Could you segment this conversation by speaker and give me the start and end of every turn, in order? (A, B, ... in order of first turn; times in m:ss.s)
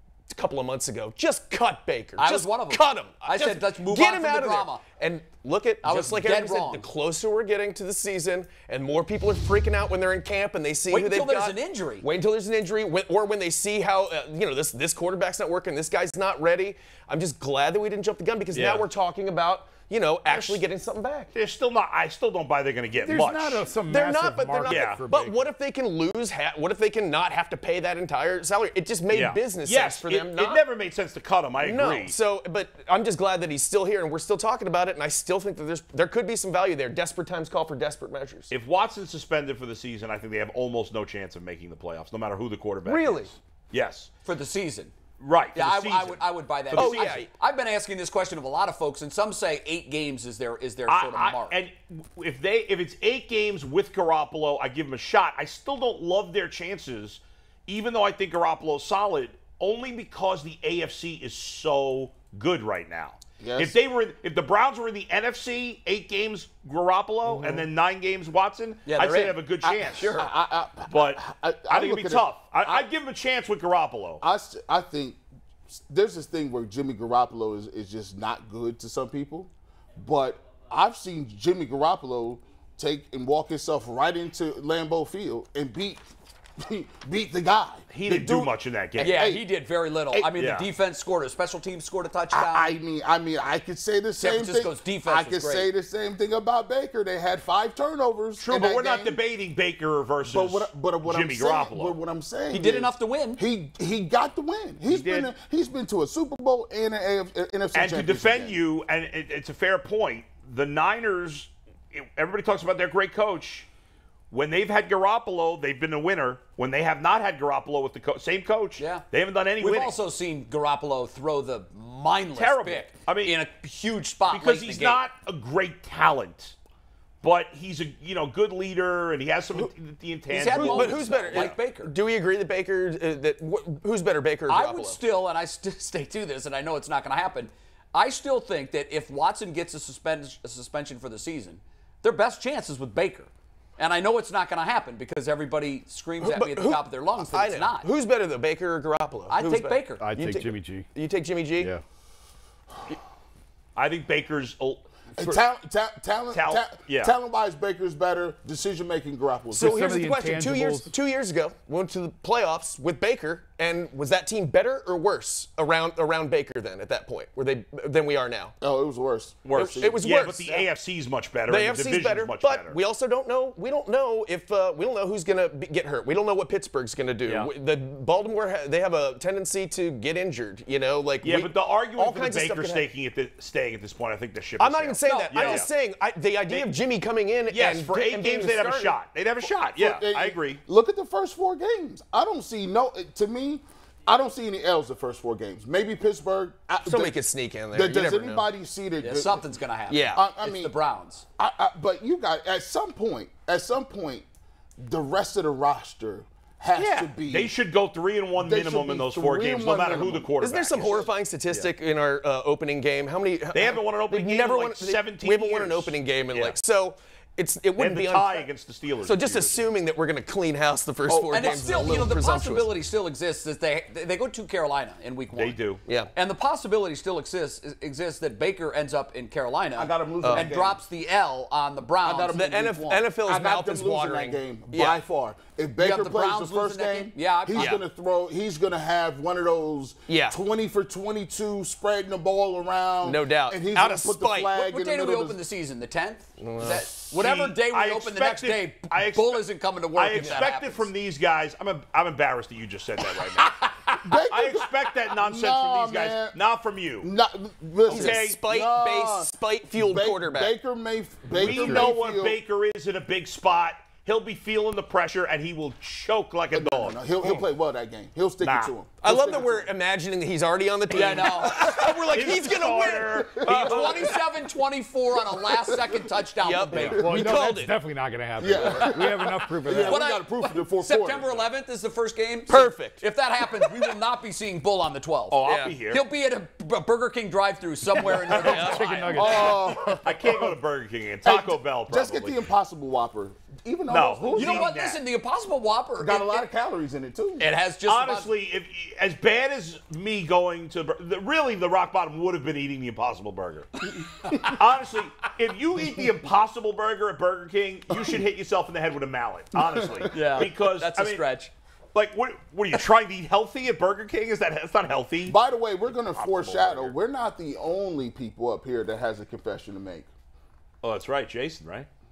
0:00.3-0:21.3 A
0:02.2-0:04.8 B
0:05.8-0:06.9 B
0:10.9-0:12.0 B
0:18.5-0:18.9 C
0:20.2-0:20.6 C
0:21.3-0:23.7 C
0:23.0-0:25.5 D
0:23.8-0:30.6 A
0:24.6-0:25.0 C
0:29.1-0:32.1 C
0:31.6-0:38.5 A
0:38.5-0:44.1 C
0:42.8-0:43.3 A
0:44.2-0:44.9 B
0:45.2-0:47.2 C
0:45.5-0:51.6 B
0:46.7-0:47.3 A
0:50.9-1:10.1 C
1:03.4-1:03.8 E
1:07.4-1:07.6 E
1:08.8-1:10.3 B
1:09.6-1:12.8 E
1:10.9-1:14.2 C
1:14.2-1:26.0 E
1:26.6-1:29.5 E
1:27.9-1:29.2 C
1:29.0-1:32.7 B
1:30.3-1:30.7 C
1:32.3-1:39.2 E
1:34.2-1:35.7 B
1:38.4-1:42.0 C
1:40.2-1:48.6 E
1:42.5-1:43.4 B
1:44.8-1:45.3 C
1:47.7-1:53.7 C
1:54.3-2:00.0 C
1:58.8-1:59.1 B
1:59.6-2:05.0 B
2:02.3-2:03.4 C
2:04.3-2:06.6 C
2:07.2-2:11.6 C
2:10.3-2:11.9 B
2:10.5-2:15.0 A
2:14.5-2:27.9 B
2:26.2-2:31.7 A
2:29.3-2:30.0 B
2:30.0-2:30.9 D
2:31.6-2:31.8 D
2:33.7-2:34.9 C
2:35.1-2:39.7 E
2:36.3-2:37.1 C
2:39.5-2:48.5 A
2:39.5-2:40.9 D
2:48.6-2:50.6 E
2:49.4-2:52.8 C
2:49.5-2:50.6 A
2:51.5-3:02.9 A
2:57.2-2:57.5 C
3:01.2-3:05.7 C
3:04.6-3:09.0 A
3:05.0-3:05.7 B
3:06.5-3:06.7 C
3:07.5-3:10.6 C
3:09.4-3:17.2 E
3:16.8-3:18.5 A
3:17.7-3:19.5 E
3:19.0-3:21.2 B
3:19.9-3:20.2 A
3:20.1-3:20.8 E
3:21.4-3:24.2 E
3:24.8-3:27.6 E
3:26.7-3:31.7 C
3:28.3-3:30.4 E
3:30.4-3:38.5 A
3:33.5-3:36.6 C
3:37.8-3:39.7 C
3:39.0-3:42.7 A
3:41.3-3:45.6 B
3:45.3-3:45.8 C
3:46.1-3:52.9 B
3:49.7-3:50.8 E
3:50.2-3:50.5 A
3:52.0-4:05.4 E
3:52.3-3:55.0 A
3:55.8-3:57.8 B
3:57.5-3:57.8 A
4:00.1-4:00.4 A
4:03.0-4:04.5 A
4:04.5-4:10.9 B
4:06.4-4:06.8 A
4:06.9-4:13.6 C
4:10.2-4:10.4 A
4:13.0-4:14.1 B
4:14.0-4:16.4 E
4:14.2-4:17.1 C
4:17.0-4:22.4 E
4:17.9-4:18.4 C
4:17.9-4:20.5 A
4:21.3-4:21.9 D
4:21.3-4:27.0 C
4:26.5-4:29.7 E
4:28.4-4:28.8 C
4:29.0-4:34.2 A
4:30.9-4:32.6 B
4:31.4-4:32.0 E
4:32.0-4:33.9 C
4:32.5-4:34.1 E
4:33.4-4:37.4 B
4:36.4-4:37.7 A
4:36.8-4:40.0 D
4:38.4-4:41.4 E
4:38.6-4:39.2 B
4:39.7-4:49.8 B
4:42.5-4:43.0 A
4:45.3-4:46.0 C
4:45.4-4:45.8 A
4:48.1-4:50.1 D
4:48.4-4:48.9 A
4:49.1-4:50.0 E
4:50.0-4:52.4 C
4:51.2-4:54.7 E
4:53.9-4:55.0 C
4:54.3-4:56.4 B
4:56.0-4:57.5 E
4:57.4-4:58.3 B
4:57.8-5:03.7 C
5:03.9-5:04.5 B
5:04.4-5:11.2 C
5:09.5-5:10.5 E
5:10.0-5:11.5 B
5:11.9-5:15.4 C
5:15.2-5:20.1 E
5:16.1-5:16.9 C
5:20.8-5:21.9 C